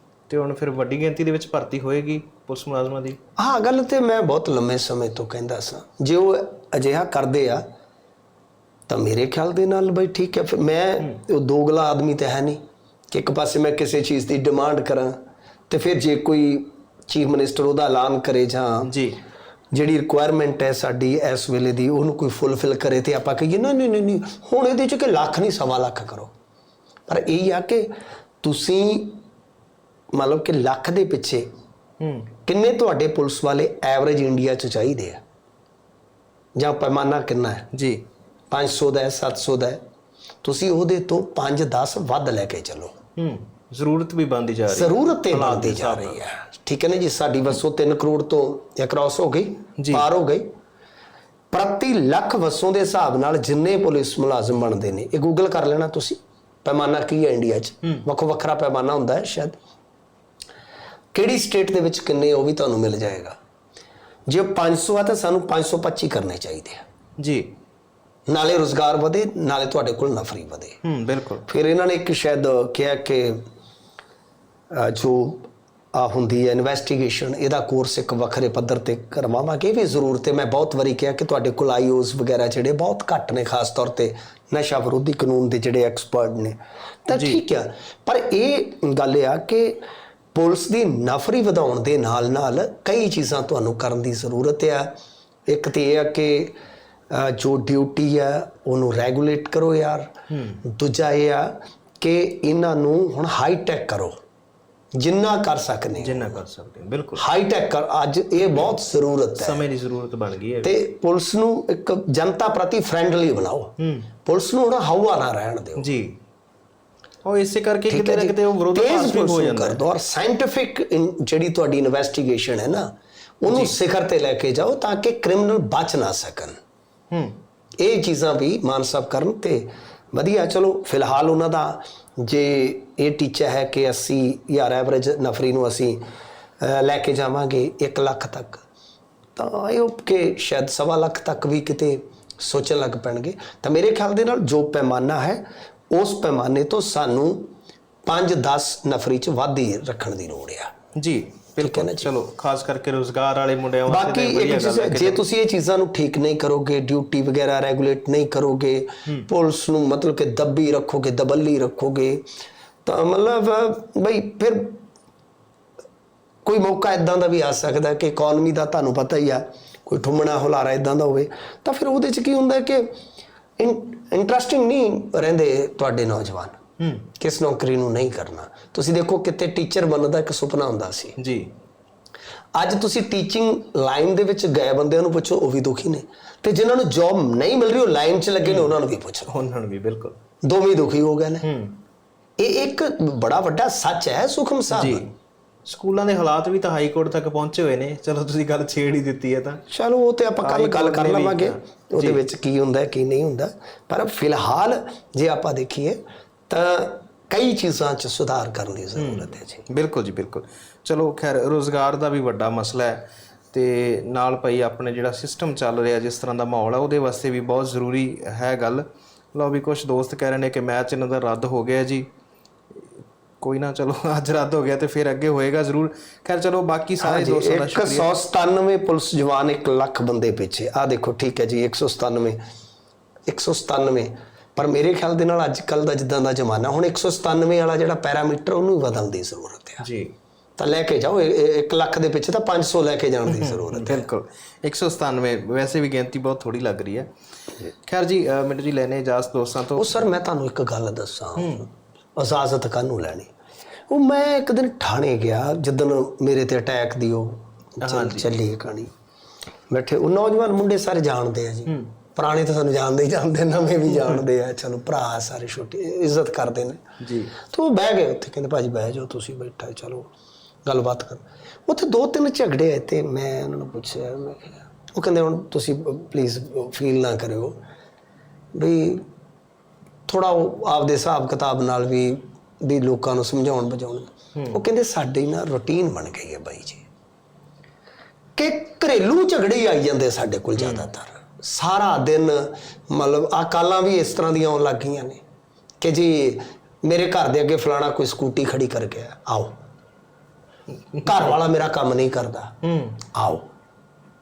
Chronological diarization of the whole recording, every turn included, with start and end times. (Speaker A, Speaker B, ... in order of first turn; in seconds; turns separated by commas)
Speaker A: 0.3-3.2, Speaker B: 3.4-7.7, Speaker B: 8.9-15.2, Speaker B: 15.7-18.9, Speaker A: 18.8-19.2, Speaker B: 19.7-26.3, Speaker B: 27.1-29.2, Speaker B: 30.1-31.5, Speaker A: 32.0-32.3, Speaker B: 32.5-35.2, Speaker B: 36.6-37.7, Speaker A: 37.7-38.0, Speaker B: 38.5-39.8, Speaker B: 40.4-42.9, Speaker A: 43.2-46.2, Speaker B: 44.7-50.5, Speaker A: 49.8-50.1, Speaker B: 51.5-59.6, Speaker B: 61.1-63.4, Speaker B: 64.3-66.8, Speaker A: 67.2-67.5, Speaker B: 68.3-70.8, Speaker A: 70.8-71.5, Speaker B: 71.5-73.4, Speaker B: 74.7-89.8, Speaker A: 87.1-87.4, Speaker B: 90.3-94.9, Speaker B: 95.5-96.6, Speaker B: 97.1-100.1, Speaker A: 100.3-100.6, Speaker B: 100.6-104.2, Speaker B: 105.0-106.4, Speaker A: 106.0-107.2, Speaker B: 107.2-109.6, Speaker A: 108.4-108.8, Speaker A: 109.4-110.7, Speaker B: 110.6-115.9, Speaker A: 113.8-114.1, Speaker A: 115.8-116.2, Speaker A: 117.2-119.8, Speaker B: 117.9-126.6, Speaker A: 127.1-127.4, Speaker B: 127.8-136.0, Speaker B: 136.6-138.6, Speaker B: 139.4-147.5, Speaker B: 148.1-150.7, Speaker A: 151.0-155.2, Speaker B: 151.6-152.1, Speaker B: 153.9-162.3, Speaker B: 162.8-164.8, Speaker B: 166.4-172.9, Speaker B: 173.6-176.6, Speaker A: 176.8-177.1, Speaker B: 177.2-181.2, Speaker A: 181.2-181.5, Speaker B: 182.6-189.4, Speaker A: 188.4-188.7, Speaker A: 189.3-190.2, Speaker B: 190.4-191.5, Speaker A: 191.4-191.8, Speaker B: 192.4-195.1, Speaker A: 194.7-195.1, Speaker A: 195.7-199.6, Speaker B: 199.7-209.7, Speaker A: 200.4-202.2, Speaker A: 209.0-222.1, Speaker A: 223.4-228.1, Speaker B: 227.0-232.4, Speaker B: 233.3-239.8, Speaker A: 239.8-240.1, Speaker B: 240.6-244.1, Speaker A: 243.3-247.1, Speaker A: 247.7-250.1, Speaker B: 249.8-253.3, Speaker A: 251.4-251.7, Speaker B: 253.9-258.9, Speaker A: 257.8-258.3, Speaker B: 259.7-266.8, Speaker A: 261.7-261.9, Speaker A: 263.9-264.2, Speaker A: 267.0-267.4, Speaker B: 267.4-270.1, Speaker B: 270.6-277.6, Speaker B: 278.6-279.1, Speaker B: 280.1-286.8, Speaker A: 284.4-284.6, Speaker B: 288.4-295.2, Speaker A: 290.6-290.9, Speaker B: 295.8-299.6, Speaker A: 300.8-301.4, Speaker B: 301.1-302.6, Speaker A: 302.6-303.0, Speaker B: 303.1-303.5